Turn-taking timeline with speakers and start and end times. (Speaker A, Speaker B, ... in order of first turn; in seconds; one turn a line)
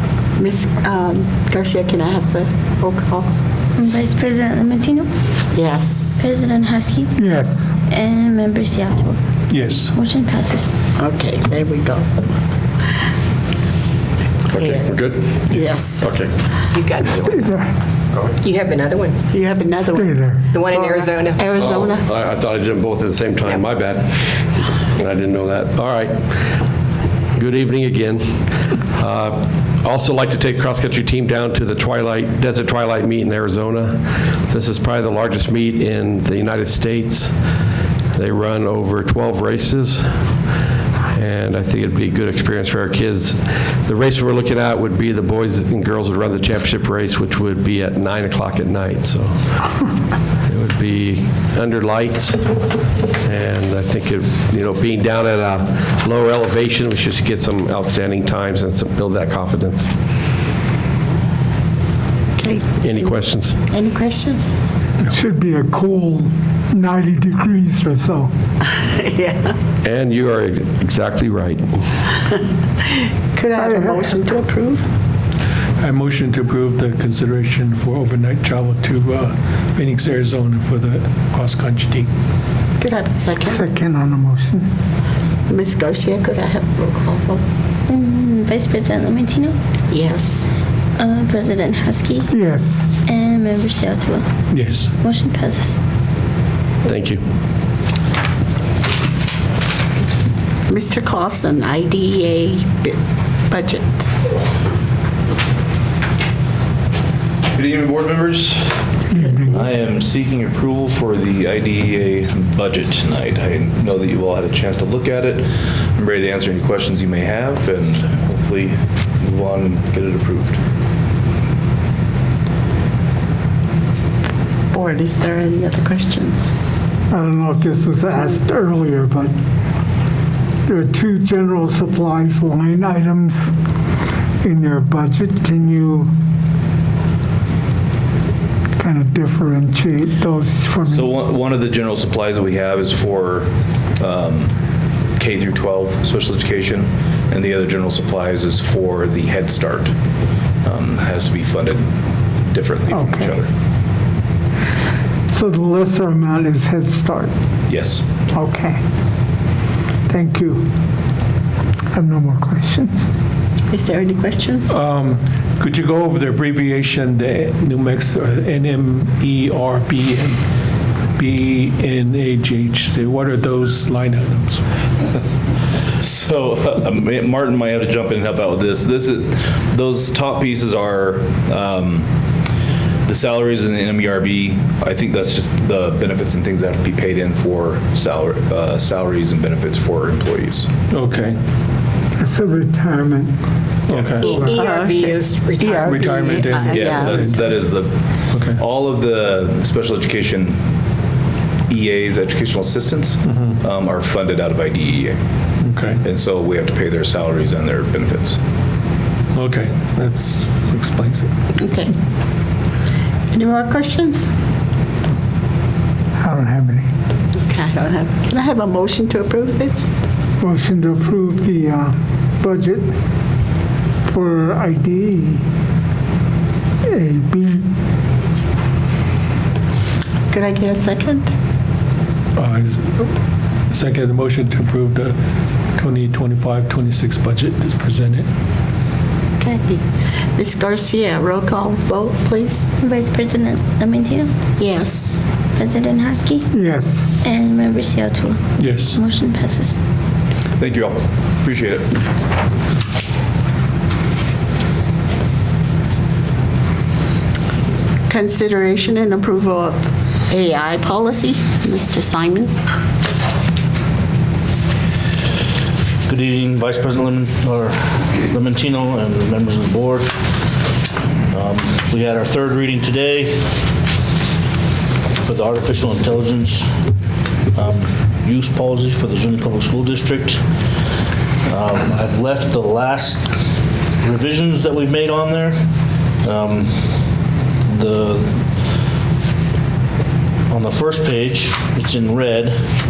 Speaker A: 0.4-3.3
Speaker B: 3.8-5.1
Speaker A: 5.5-6.2
Speaker B: 6.2-7.2
Speaker C: 7.2-7.8
Speaker B: 7.9-9.2
Speaker D: 9.5-9.9
Speaker B: 9.8-10.8
Speaker A: 11.0-12.1
Speaker E: 14.5-16.3
Speaker A: 14.6-14.9
Speaker D: 15.5-15.7
Speaker A: 15.5-16.1
Speaker F: 16.7-17.5
Speaker C: 17.3-17.7
Speaker F: 18.4-19.2
Speaker A: 19.3-22.1
Speaker C: 19.8-20.4
Speaker F: 20.5-21.6
Speaker E: 21.6-26.2
Speaker E: 27.4-28.4
Speaker E: 28.9-37.3
Speaker E: 38.1-40.1
Speaker E: 41.1-49.4
Speaker E: 50.5-52.4
Speaker E: 53.2-59.9
Speaker A: 62.4-64.5
Speaker E: 62.8-63.6
Speaker C: 65.1-68.3
Speaker A: 68.7-69.6
Speaker E: 69.8-71.7
Speaker A: 73.3-74.9
Speaker C: 73.6-74.2
Speaker D: 75.8-82.1
Speaker A: 82.8-83.7
Speaker C: 83.5-84.7
Speaker A: 85.5-87.4
Speaker B: 87.9-89.6
Speaker A: 89.9-90.5
Speaker B: 91.0-92.3
Speaker C: 92.3-92.9
Speaker B: 93.1-94.3
Speaker D: 94.5-94.9
Speaker B: 94.9-95.8
Speaker E: 96.8-97.2
Speaker A: 100.7-103.0
Speaker A: 103.5-104.0
Speaker G: 107.5-108.7
Speaker C: 109.1-109.7
Speaker G: 109.5-120.6
Speaker A: 124.7-126.5
Speaker C: 127.1-129.4
Speaker A: 128.1-128.4
Speaker C: 130.7-133.5
Speaker C: 134.4-136.1
Speaker C: 138.8-141.1
Speaker G: 140.8-144.5
Speaker G: 145.2-149.9
Speaker G: 150.6-151.8
Speaker G: 152.5-153.5
Speaker C: 152.9-153.4
Speaker C: 155.3-157.3
Speaker G: 157.7-158.1
Speaker C: 158.3-158.8
Speaker C: 160.1-160.7
Speaker C: 161.9-163.1
Speaker A: 163.7-164.7
Speaker D: 164.7-170.4
Speaker D: 171.2-174.6
Speaker G: 176.0-182.1
Speaker G: 183.1-190.7
Speaker D: 190.9-191.4
Speaker C: 192.2-193.4
Speaker D: 193.9-194.3
Speaker G: 193.9-194.3
Speaker F: 194.2-196.7
Speaker C: 194.3-194.7
Speaker A: 194.3-197.2
Speaker D: 195.8-197.6
Speaker G: 196.7-200.6
Speaker D: 198.3-198.6
Speaker G: 201.7-205.2
Speaker D: 203.2-203.6
Speaker D: 205.6-206.1
Speaker G: 206.0-208.4
Speaker D: 209.3-211.3
Speaker A: 211.6-211.9
Speaker A: 213.3-214.3
Speaker C: 216.2-216.9
Speaker A: 217.4-219.9
Speaker C: 220.4-222.9
Speaker C: 224.1-225.4
Speaker C: 226.8-227.7
Speaker A: 230.3-231.3
Speaker D: 232.3-233.1
Speaker D: 233.7-235.2
Speaker D: 235.8-238.3
Speaker A: 239.4-239.8
Speaker A: 240.4-242.7
Speaker B: 242.8-244.3
Speaker A: 244.6-245.2
Speaker B: 245.6-246.5
Speaker C: 246.5-247.1
Speaker B: 247.2-249.8
Speaker D: 248.6-249.0
Speaker G: 250.6-252.0
Speaker A: 258.1-262.7
Speaker H: 266.1-270.1
Speaker H: 271.3-273.5
Speaker H: 275.2-276.7
Speaker H: 277.5-280.4
Speaker H: 281.4-283.3
Speaker H: 284.0-285.6
Speaker H: 286.2-286.9
Speaker H: 287.7-288.4
Speaker H: 290.5-292.6